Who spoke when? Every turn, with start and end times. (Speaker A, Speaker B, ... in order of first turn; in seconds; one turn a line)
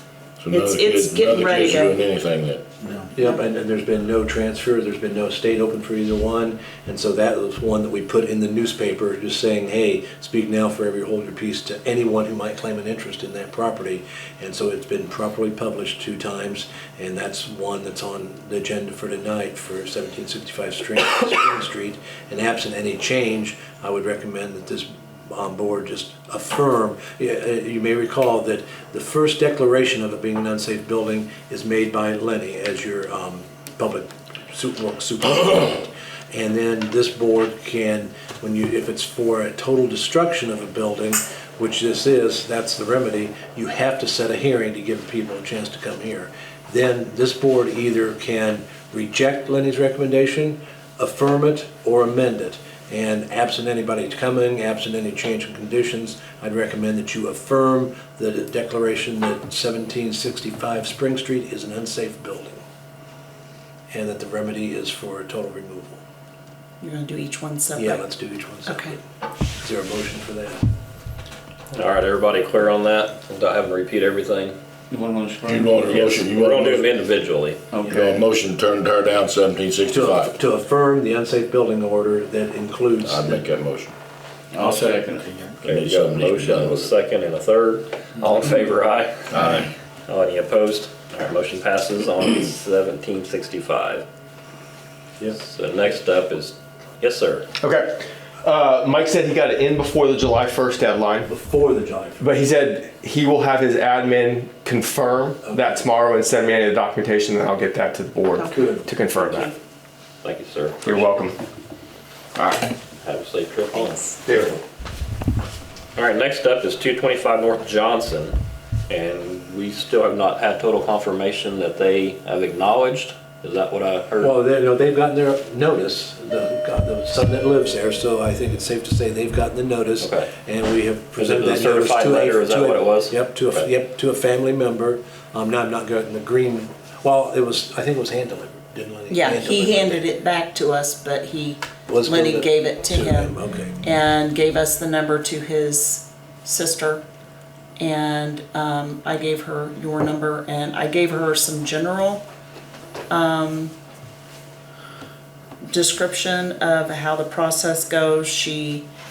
Speaker A: 0.4-2.8
Speaker B: 0.5-2.0
Speaker C: 3.0-62.6
Speaker C: 63.9-66.0
Speaker B: 66.8-68.0
Speaker C: 67.8-69.0
Speaker B: 68.7-69.0
Speaker C: 69.6-70.6
Speaker D: 71.7-74.5
Speaker E: 74.9-75.9
Speaker A: 75.4-76.9
Speaker D: 75.8-77.6
Speaker E: 77.7-78.2
Speaker A: 77.8-80.3
Speaker C: 79.9-83.4
Speaker A: 83.0-83.9
Speaker E: 84.5-85.6
Speaker A: 85.6-86.9
Speaker D: 85.6-94.0
Speaker A: 89.3-89.7
Speaker D: 95.3-97.5
Speaker F: 97.6-101.3
Speaker C: 101.2-102.3
Speaker F: 102.2-109.5
Speaker C: 105.4-105.8
Speaker B: 108.3-109.5
Speaker C: 108.5-108.9
Speaker D: 110.2-111.1
Speaker F: 110.8-111.3
Speaker F: 112.3-112.7
Speaker D: 113.0-114.4
Speaker B: 113.7-114.2
Speaker F: 114.2-114.6
Speaker D: 116.0-118.3
Speaker D: 118.9-124.3
Speaker C: 124.2-140.0
Speaker D: 130.0-130.3
Speaker D: 131.2-133.7
Speaker B: 139.1-147.0
Speaker C: 141.9-143.8
Speaker B: 147.8-152.2
Speaker B: 153.1-153.7
Speaker B: 155.7-158.9